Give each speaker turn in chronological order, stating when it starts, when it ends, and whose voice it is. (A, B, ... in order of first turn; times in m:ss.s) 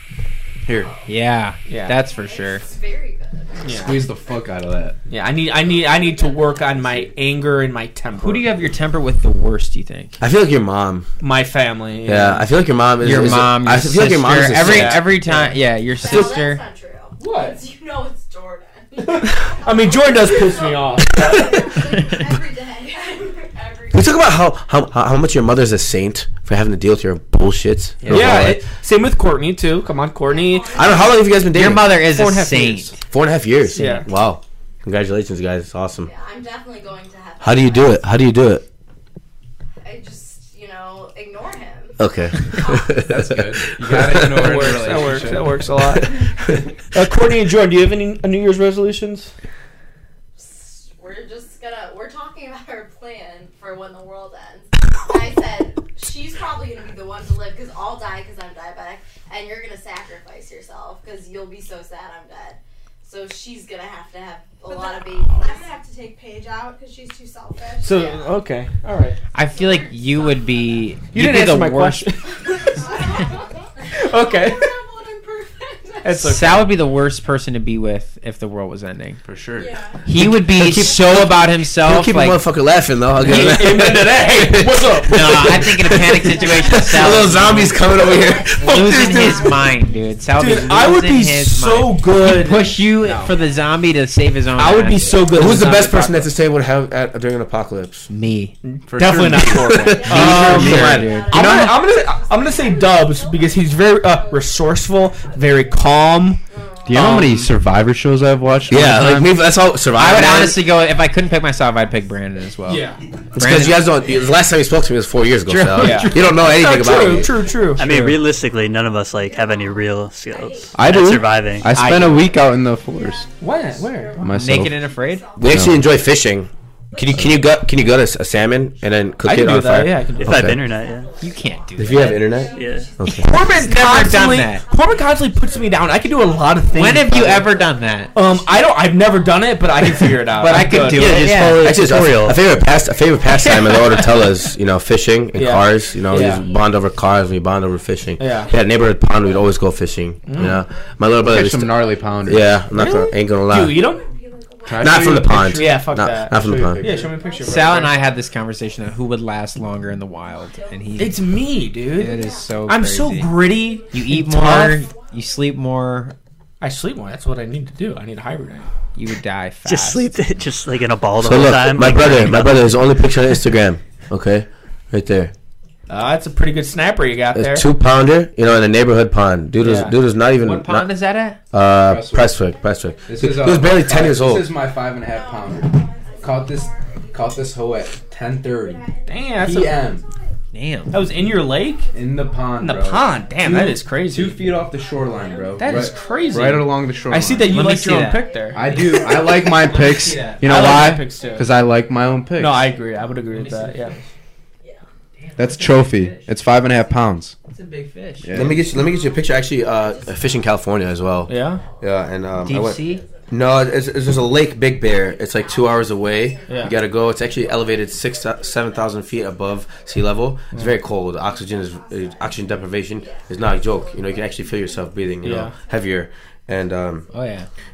0:00.6-0:00.9 A
0:00.7-0:01.1 B
0:01.0-0:02.6 C
0:01.7-0:01.9 D
0:01.9-0:04.1 B
0:03.6-0:04.0 D
0:03.7-0:05.0 A
0:05.1-0:08.5 D
0:05.4-0:07.2 B
0:08.2-0:10.2 C
0:10.2-0:11.1 E
0:11.2-0:12.5 D
0:12.0-0:15.0 E
0:13.0-0:16.6 C
0:14.5-0:15.5 D
0:15.9-0:24.3 B
0:17.2-0:17.6 D
0:19.0-0:21.8 D
0:21.3-0:23.4 F
0:23.9-0:28.6 E
0:28.0-0:28.5 A
0:28.1-0:31.1 D
0:30.3-0:31.6 B
0:30.7-0:32.0 E
0:31.5-0:33.0 C
0:31.9-0:33.0 D
0:33.1-0:36.1 E
0:33.7-0:34.1 D
0:36.0-0:38.0 B
0:37.4-0:38.6 E
0:39.8-0:42.9 B
0:42.0-0:44.6 E
0:43.0-0:45.7 A
0:44.2-0:46.3 D
0:45.8-0:46.6 E
0:46.9-0:49.3 D
0:50.4-1:05.8 B
1:04.6-1:08.3 F
1:07.8-1:09.2 D
1:09.3-1:12.1 C
1:09.5-1:10.4 B
1:09.6-1:10.0 F
1:11.1-1:12.9 D
1:12.4-1:16.2 F
1:12.5-1:13.4 B
1:13.9-1:14.8 D
1:16.0-1:16.7 D
1:16.1-1:19.2 C
1:19.2-1:19.8 A
1:19.6-1:20.0 F
1:20.0-1:22.4 C
1:20.1-1:29.5 E
1:23.2-1:26.0 D
1:23.2-1:23.7 C
1:25.0-1:27.9 C
1:26.4-1:30.6 F
1:28.5-1:35.6 C
1:30.4-1:33.3 D
1:34.6-1:36.3 D
1:35.3-1:38.1 E
1:38.1-1:38.6 C
1:38.6-1:47.5 D
1:38.9-1:41.0 A
1:39.5-1:44.3 B
1:40.0-1:41.7 E
1:40.0-1:41.7 C
1:46.5-1:47.3 B
1:46.8-1:49.3 A
1:48.7-1:50.7 E
1:49.9-1:53.8 C
1:51.0-1:52.0 B
1:52.7-1:53.0 D
1:53.3-1:57.4 E
1:55.5-1:56.5 C
1:55.8-1:58.2 D
1:57.8-2:01.7 G
1:59.2-2:00.5 F
2:00.4-2:00.7 B
2:00.7-2:03.3 A
2:01.7-2:02.3 D
2:01.9-2:06.1 F
2:03.4-2:04.2 D
2:04.2-2:04.9 A
2:04.3-2:05.3 C
2:05.4-2:10.5 E
2:05.5-2:05.9 A
2:07.0-2:08.0 F
2:07.4-2:08.0 B
2:09.2-2:10.4 D
2:10.2-2:11.1 G
2:10.2-2:10.6 A
2:10.3-2:17.2 F
2:10.6-2:20.0 B
2:11.2-2:12.2 C
2:11.8-2:13.3 E
2:12.5-2:12.9 G
2:13.0-2:14.6 C
2:13.2-2:21.3 D
2:16.7-2:18.1 C
2:18.0-2:19.5 F
2:19.8-2:21.8 C
2:20.4-2:22.4 G
2:21.6-2:33.9 E
2:22.8-2:24.6 B
2:23.4-2:24.0 D
2:25.3-2:26.4 D
2:25.4-2:27.0 B
2:28.2-2:28.5 D
2:28.3-2:28.7 B
2:30.2-2:30.6 D
2:31.2-2:32.6 A
2:32.7-2:34.1 D
2:34.6-2:35.8 A
2:34.8-2:36.9 E
2:35.3-2:37.9 D
2:36.8-2:37.1 A
2:37.4-2:41.3 C
2:40.3-2:41.0 B
2:41.0-2:44.9 D
2:41.9-2:43.3 C
2:42.2-2:42.5 F
2:43.9-2:46.1 C
2:46.6-2:48.7 D
2:48.9-2:50.1 C
2:49.6-2:52.9 G
2:51.2-2:55.3 E
2:55.9-2:57.7 D
2:57.3-3:00.9 E
2:59.6-2:59.9 D
3:00.4-3:01.4 C
3:01.5-3:04.5 E
3:01.8-3:02.4 A
3:03.0-3:10.0 A
3:05.1-3:07.1 B
3:05.7-3:06.7 F
3:09.1-3:09.8 D
3:10.5-3:11.0 C
3:10.9-3:11.9 D
3:11.9-3:17.6 A
3:12.6-3:14.5 D
3:14.8-3:16.6 F
3:15.2-3:16.4 B
3:15.6-3:15.9 C
3:15.6-3:18.6 D
3:17.4-3:20.7 C
3:18.2-3:20.0 B
3:18.5-3:19.3 F
3:18.5-3:22.6 A
3:20.4-3:21.5 D
3:22.4-3:24.0 D
3:23.3-3:24.0 C
3:25.2-3:26.2 C
3:25.4-3:27.4 A
3:27.5-3:28.3 C
3:28.2-3:28.7 A
3:28.3-3:47.1 E
3:29.7-3:30.4 B
3:31.3-3:31.6 D
3:31.6-3:31.8 B
3:32.4-3:33.0 C
3:32.8-3:40.2 B
3:36.5-3:36.7 D
3:41.1-3:45.9 B
3:45.2-3:45.5 D
3:47.1-3:47.5 C